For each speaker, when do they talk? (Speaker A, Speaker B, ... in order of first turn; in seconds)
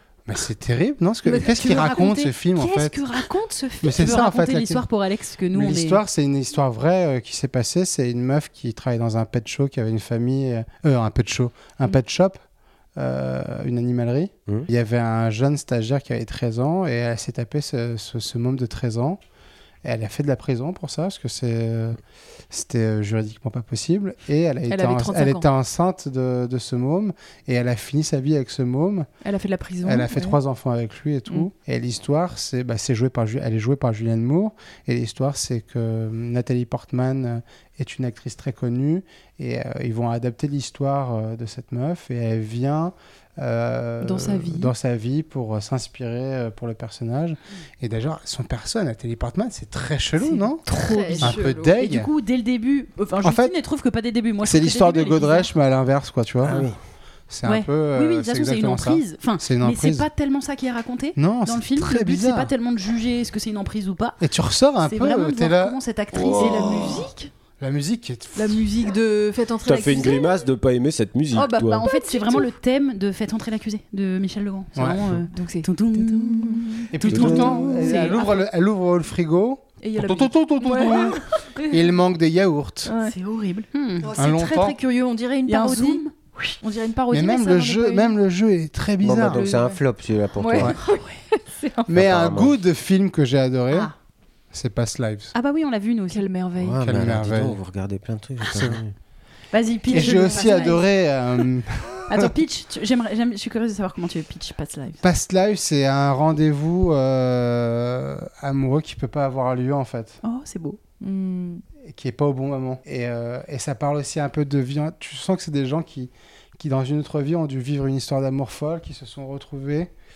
Speaker A: 0.3-3.2, 3.8-4.8, 5.5-12.4, 13.0-19.2, 19.8-29.1, 29.8-52.1, 53.2-53.5, 54.4-56.8, 57.3-60.1, 61.2-62.5, 64.2-67.0, 67.6-68.7, 74.8-75.2, 76.9-82.9, 84.2-84.8, 87.1-89.5, 91.9-93.9, 94.5-95.3, 96.8-97.6, 98.4-98.8, 99.9-102.3, 105.0-110.2, 111.8-119.9
Speaker B: 1.2-6.0, 50.6-55.5, 57.4-64.2, 64.8-67.3, 71.4-78.3, 83.0-84.1, 85.5-86.6, 90.8-91.1, 95.3-96.2, 99.5-100.8, 102.1-105.0, 110.2-110.8
Speaker C: 24.7-25.4, 29.2-30.4, 44.0-44.7, 50.7-51.8, 66.2-67.1, 68.3-70.5, 71.3-72.5, 75.3-78.4, 79.8-81.9, 82.9-83.1, 84.0-86.0, 86.6-88.2, 89.3-89.8, 90.4-91.9, 96.1-96.8, 99.9-100.8, 111.0-111.6
Speaker D: 56.4-56.8, 66.1-66.9, 69.7-71.9, 77.1-77.7, 89.0-90.8, 91.9-92.5, 96.6-98.9